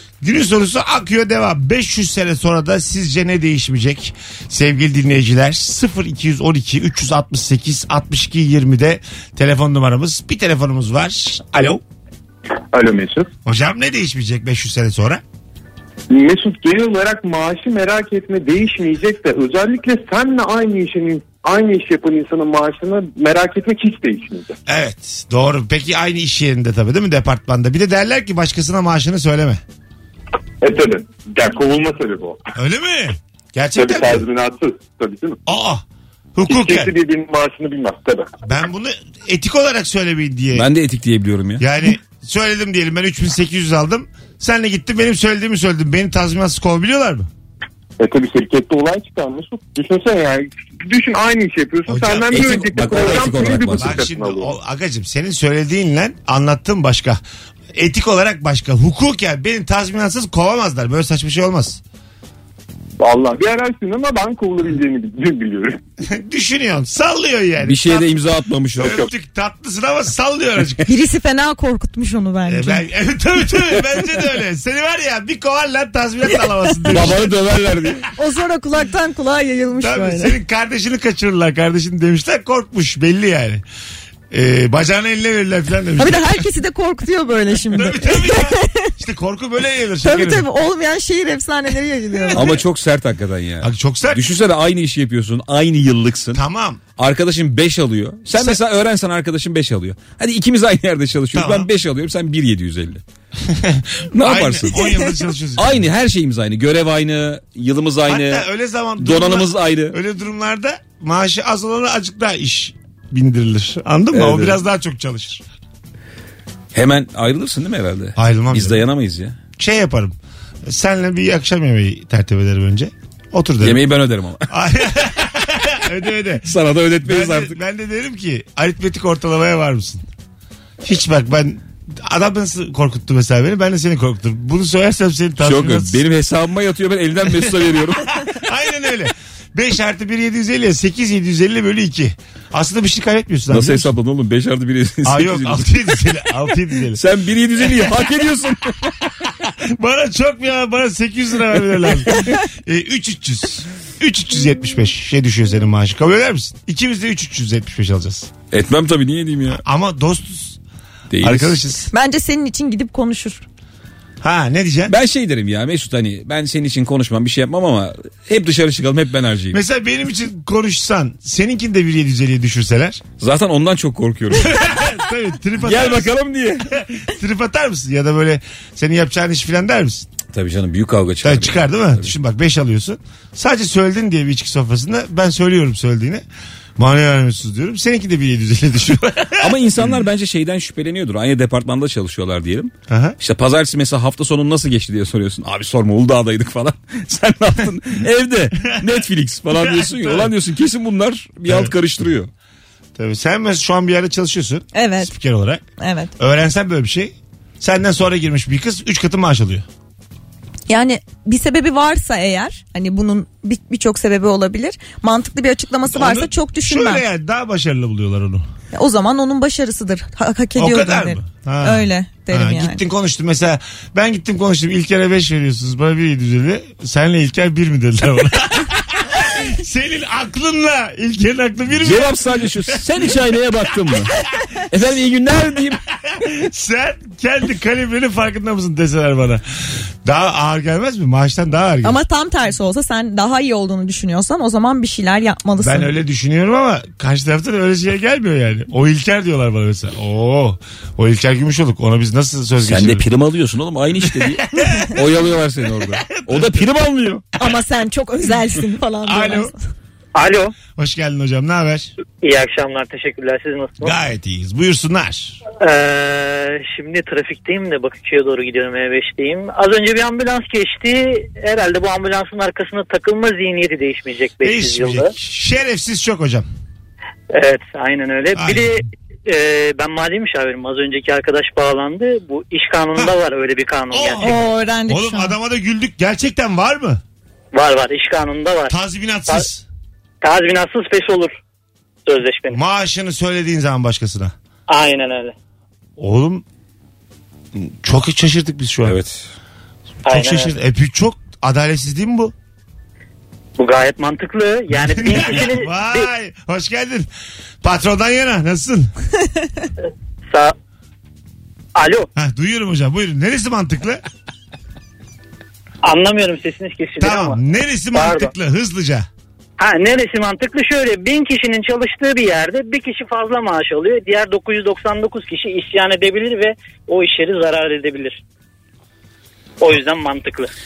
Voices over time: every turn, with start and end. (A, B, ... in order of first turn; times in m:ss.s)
0:00.2-0:11.8 A
0:12.7-0:13.3 B
0:13.4-0:15.2 A
0:16.1-0:24.5 B
0:24.7-0:29.6 A
0:30.6-0:32.4 B
0:32.6-0:34.3 A
0:33.8-0:35.4 B
0:35.5-0:35.8 A
0:36.4-0:36.9 A
0:36.5-0:38.3 B
0:38.4-0:40.7 A
0:40.5-0:41.6 C
0:41.6-0:47.3 A
0:48.0-0:54.5 B
0:51.9-0:57.2 A
0:52.3-0:54.0 C
0:57.7-1:01.8 A
1:03.0-1:05.8 B
1:06.1-1:08.1 A
1:07.6-1:09.1 C
1:08.8-1:10.9 A
1:10.9-1:12.8 D
1:12.5-1:17.3 A
1:16.4-1:17.1 D
1:16.9-1:18.1 C
1:18.2-1:20.4 D
1:19.8-1:23.6 A
1:24.3-1:26.4 A
1:26.0-1:28.9 D
1:27.7-1:30.5 A
1:30.0-1:32.6 D
1:32.3-1:36.4 C
1:33.6-1:34.2 A
1:36.3-1:36.8 A
1:37.0-1:43.0 C
1:41.3-1:41.7 A
1:43.4-1:45.9 A
1:44.1-1:44.9 C
1:44.8-1:45.1 D
1:45.6-1:48.5 C
1:48.1-1:55.4 A
1:49.0-1:50.0 C
1:54.1-1:54.6 C
1:56.7-1:59.4 C
1:58.2-1:58.8 A
1:59.6-2:00.2 A
2:00.7-2:03.8 A
2:03.6-2:04.5 C
2:04.5-2:06.5 A
2:06.4-2:07.5 C
2:07.0-2:10.0 A
2:10.8-2:16.0 A
2:15.4-2:18.2 C
2:18.1-2:23.9 A
2:23.5-2:26.1 C
2:25.1-2:27.0 A
2:27.0-2:28.9 C
2:29.2-2:38.3 A
2:38.5-2:39.6 C
2:39.5-2:40.6 A
2:41.1-2:41.6 C
2:41.2-2:41.9 A
2:41.9-2:43.4 D
2:44.2-2:45.0 A
2:44.9-2:49.6 C
2:49.5-2:53.0 A
2:53.2-2:54.6 C
2:54.3-2:56.1 A
2:55.6-2:56.8 C
2:56.7-3:00.1 A
3:00.3-3:02.1 C
3:01.2-3:06.2 A
3:06.8-3:10.0 A
3:09.4-3:22.3 C
3:12.9-3:13.2 A
3:18.7-3:19.0 A
3:19.5-3:20.3 A
3:21.5-3:21.7 A
3:23.0-3:25.6 A
3:24.7-3:25.1 D
3:25.8-3:26.1 D
3:26.2-3:29.7 A
3:30.7-3:37.0 D
3:35.9-3:38.5 A
3:38.7-3:42.8 D
3:40.6-3:52.8 A
3:51.8-3:55.8 C
3:56.1-3:59.4 A
4:00.0-4:02.0 A
4:01.8-4:05.9 D
4:05.6-4:13.0 A
4:12.6-4:17.2 C
4:14.0-4:15.0 A
4:15.8-4:16.6 A
4:17.4-4:19.6 D
4:19.1-4:19.5 A
4:20.2-4:20.6 E
4:20.8-4:21.9 A
4:22.2-4:23.9 E
4:23.8-4:25.4 A
4:25.6-4:35.1 E
4:34.4-4:36.5 A
4:37.3-4:44.3 E
4:38.4-4:38.7 A
4:43.9-4:47.0 A
4:44.2-4:45.4 D
4:47.5-4:48.8 E
4:48.7-4:49.7 A
4:50.2-4:51.4 E
4:52.1-4:52.6 E
4:52.5-4:54.3 A
4:54.7-4:55.3 E
4:56.0-4:56.4 A
4:57.6-4:59.0 A
4:58.8-4:59.3 C
5:00.1-5:00.5 E
5:00.1-5:02.3 A
5:03.6-5:06.1 E
5:04.7-5:07.1 A
5:07.6-5:08.9 A
5:11.8-5:12.1 E
5:12.2-5:14.0 A
5:15.8-5:17.4 E
5:17.0-5:19.1 A
5:17.9-5:18.3 E
5:19.6-5:28.2 E
5:29.6-5:30.5 E